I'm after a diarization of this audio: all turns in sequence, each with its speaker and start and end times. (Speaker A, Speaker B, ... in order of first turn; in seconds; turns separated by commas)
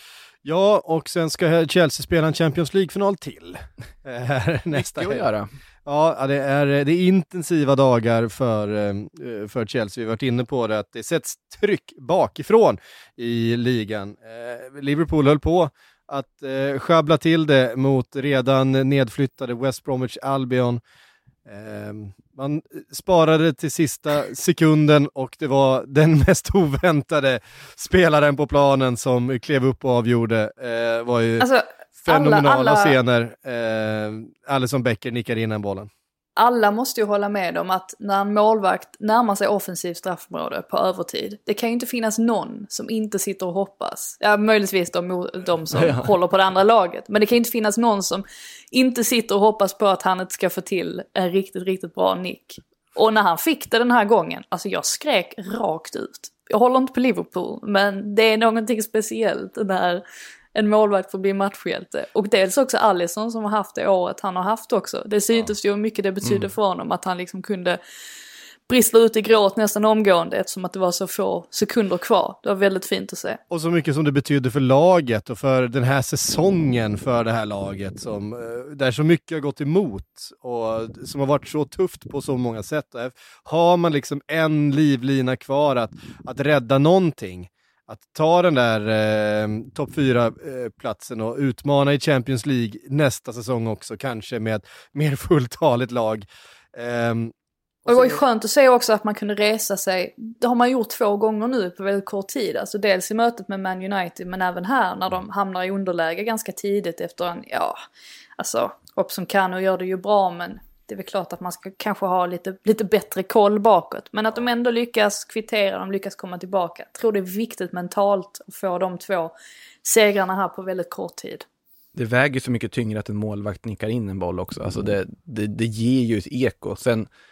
Speaker A: 0.4-5.2, Speaker B: 4.7-5.5, Speaker A: 5.8-20.8, Speaker A: 21.4-31.5, Speaker C: 31.4-33.0, Speaker A: 32.0-35.9, Speaker C: 36.4-60.0, Speaker B: 45.7-46.1, Speaker C: 60.5-67.8, Speaker C: 68.7-73.4, Speaker A: 73.5-97.3, Speaker A: 97.8-98.2, Speaker C: 97.9-107.8, Speaker C: 108.4-121.4, Speaker B: 121.9-127.1